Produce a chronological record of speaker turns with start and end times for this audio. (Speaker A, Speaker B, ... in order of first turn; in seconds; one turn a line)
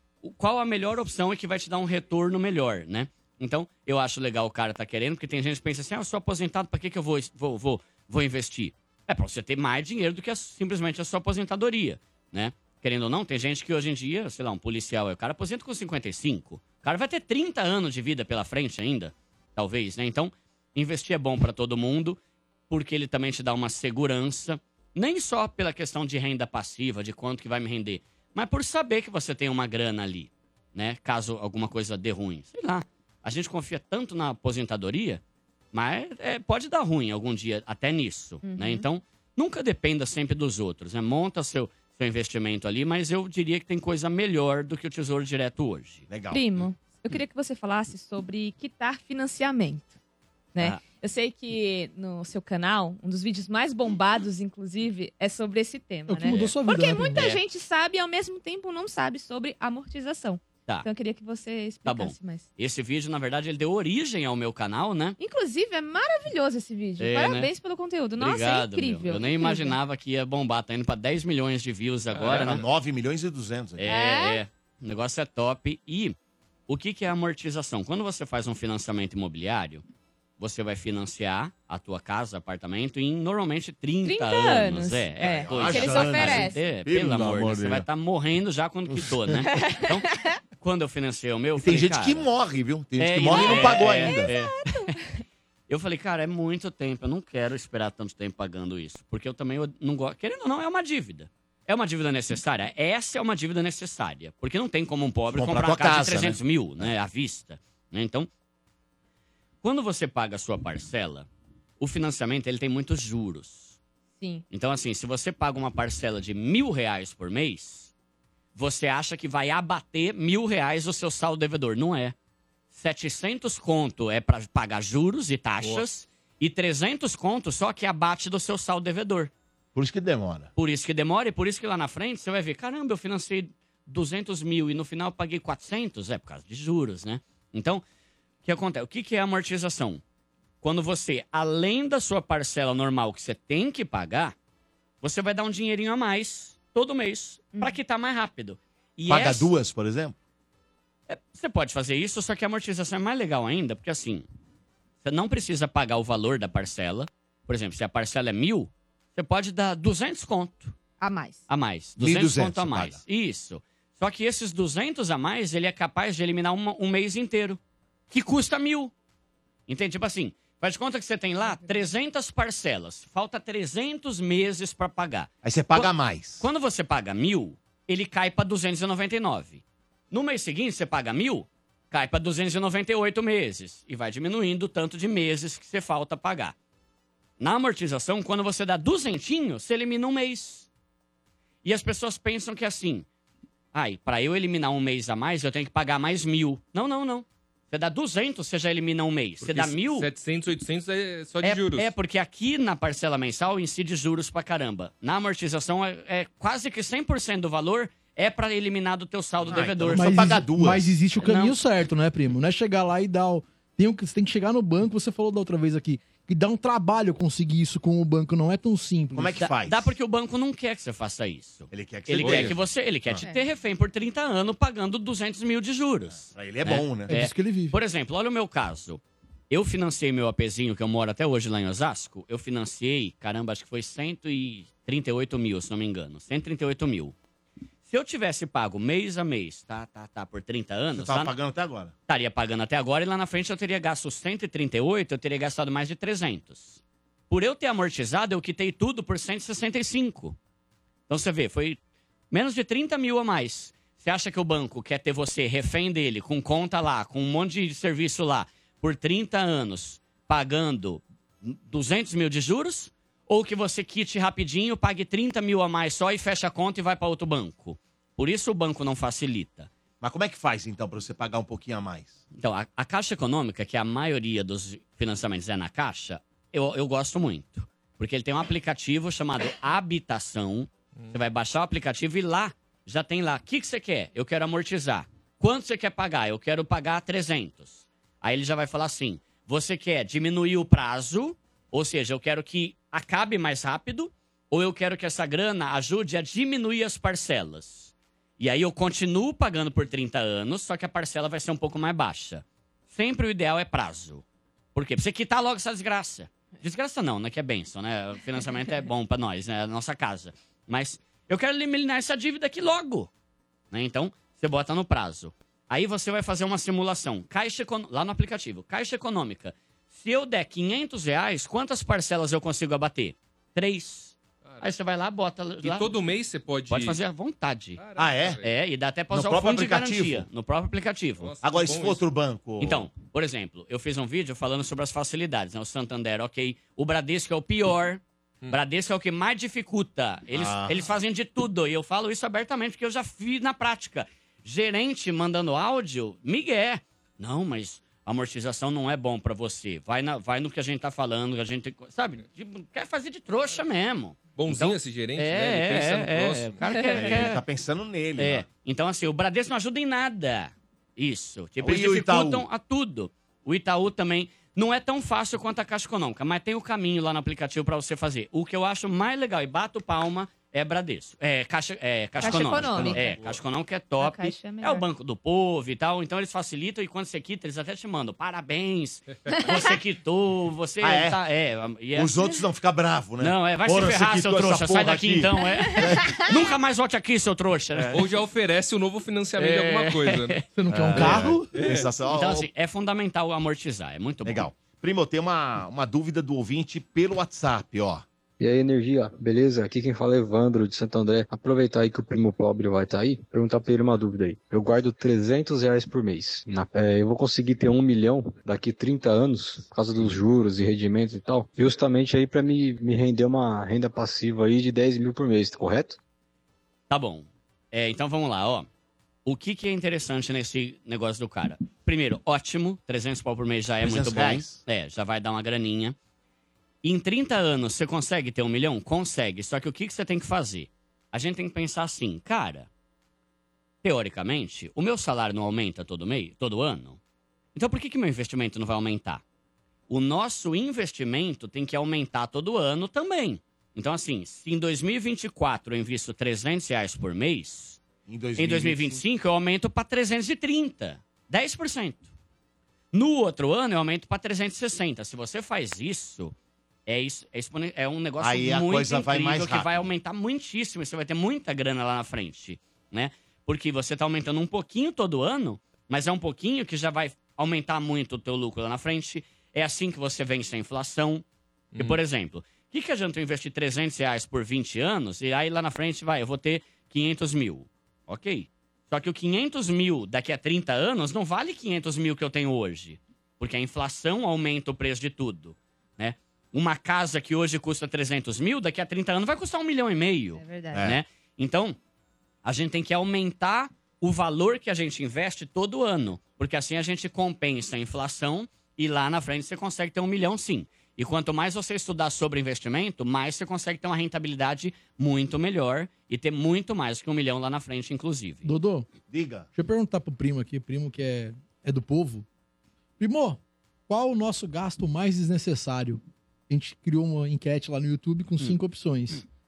Speaker A: 0.2-35.2
Speaker A: 35.7-46.1
Speaker B: 38.4-38.9
Speaker C: 46.1-46.7
Speaker B: 46.3-50.0
Speaker B: 50.6-62.5
Speaker A: 50.6-50.8
Speaker D: 56.1-57.3
Speaker A: 57.1-57.4
Speaker A: 61.9-65.2
Speaker B: 65.2-69.8
Speaker A: 67.0-67.5
Speaker A: 68.2-72.7
Speaker E: 72.1-72.5
Speaker C: 72.2-73.9
Speaker A: 73.8-76.2
Speaker B: 73.8-74.4
Speaker A: 76.7-79.8
Speaker A: 80.4-90.0
Speaker B: 84.0-86.7
Speaker C: 85.2-87.9
Speaker C: 88.9-89.5
Speaker B: 89.4-90.3
Speaker A: 90.6-92.3
Speaker C: 91.6-94.3
Speaker A: 93.0-94.6
Speaker B: 93.3-95.0
Speaker A: 95.7-108.3
Speaker C: 105.3-106.9
Speaker A: 109.6-111.3
Speaker A: 111.8-113.8
Speaker A: 114.5-117.9
Speaker A: 118.5-122.2
Speaker A: 122.7-129.3
Speaker C: 129.8-130.5
Speaker A: 130.6-137.8
Speaker A: 138.4-140.0
Speaker A: 140.6-144.3
Speaker A: 145.0-149.5
Speaker B: 147.5-147.8
Speaker C: 149.1-150.2
Speaker A: 151.1-154.2
Speaker A: 155.0-160.8
Speaker B: 161.0-161.4
Speaker A: 161.5-167.6
Speaker C: 162.0-163.0
Speaker A: 168.1-168.9
Speaker A: 169.7-186.6
Speaker B: 171.4-171.8
Speaker C: 175.4-176.5
Speaker A: 187.4-190.7
Speaker A: 191.6-193.1
Speaker A: 193.7-200.1
Speaker E: 199.4-201.9
Speaker A: 201.4-210.3
Speaker C: 209.5-211.0
Speaker D: 209.9-219.4
Speaker A: 211.2-211.6
Speaker C: 219.1-219.9
Speaker A: 219.4-237.2
Speaker C: 221.7-223.2
Speaker E: 222.2-222.6
Speaker B: 223.2-223.5
Speaker C: 226.3-227.2
Speaker D: 227.1-227.8
Speaker A: 237.8-241.3
Speaker C: 240.9-241.9
Speaker A: 242.1-250.4
Speaker A: 251.1-251.8
Speaker A: 252.3-269.7
Speaker C: 270.0-272.2
Speaker A: 272.3-313.1
Speaker A: 313.7-325.9
Speaker E: 325.6-327.0
Speaker A: 326.7-327.8
Speaker E: 327.8-328.5
Speaker C: 328.0-328.4
Speaker A: 328.4-331.4
Speaker C: 329.1-330.3
Speaker E: 331.2-332.0
Speaker C: 331.4-332.9
Speaker A: 332.6-357.4
Speaker C: 340.3-340.9
Speaker E: 354.4-357.3
Speaker B: 356.6-357.0
Speaker C: 356.9-358.5
Speaker A: 358.2-382.2
Speaker C: 361.6-362.5
Speaker B: 372.2-373.2
Speaker C: 372.2-373.1
Speaker E: 372.6-373.4
Speaker B: 374.0-374.9
Speaker B: 379.3-379.7
Speaker C: 380.8-381.2
Speaker C: 381.9-386.4
Speaker A: 383.2-388.0
Speaker B: 385.6-386.3
Speaker C: 387.8-388.0
Speaker E: 387.9-390.4
Speaker A: 389.4-390.4
Speaker D: 390.6-391.5
Speaker C: 390.7-392.5
Speaker E: 391.0-391.9
Speaker A: 392.1-394.5
Speaker C: 394.2-398.1
Speaker F: 398.4-416.0
Speaker A: 416.9-418.7
Speaker A: 419.2-426.0
Speaker C: 423.8-424.6
Speaker A: 426.8-432.7
Speaker A: 433.8-437.0
Speaker A: 437.6-439.2
Speaker A: 439.9-447.8
Speaker C: 448.1-449.0
Speaker A: 448.4-452.1
Speaker A: 452.9-456.3
Speaker A: 456.9-471.2
Speaker C: 458.2-459.9
Speaker E: 471.7-472.0
Speaker A: 471.8-491.8
Speaker B: 490.4-490.9
Speaker C: 490.7-491.0
Speaker A: 492.4-508.5
Speaker D: 508.4-508.9
Speaker C: 509.1-509.5
Speaker D: 509.5-512.3
Speaker D: 513.0-519.2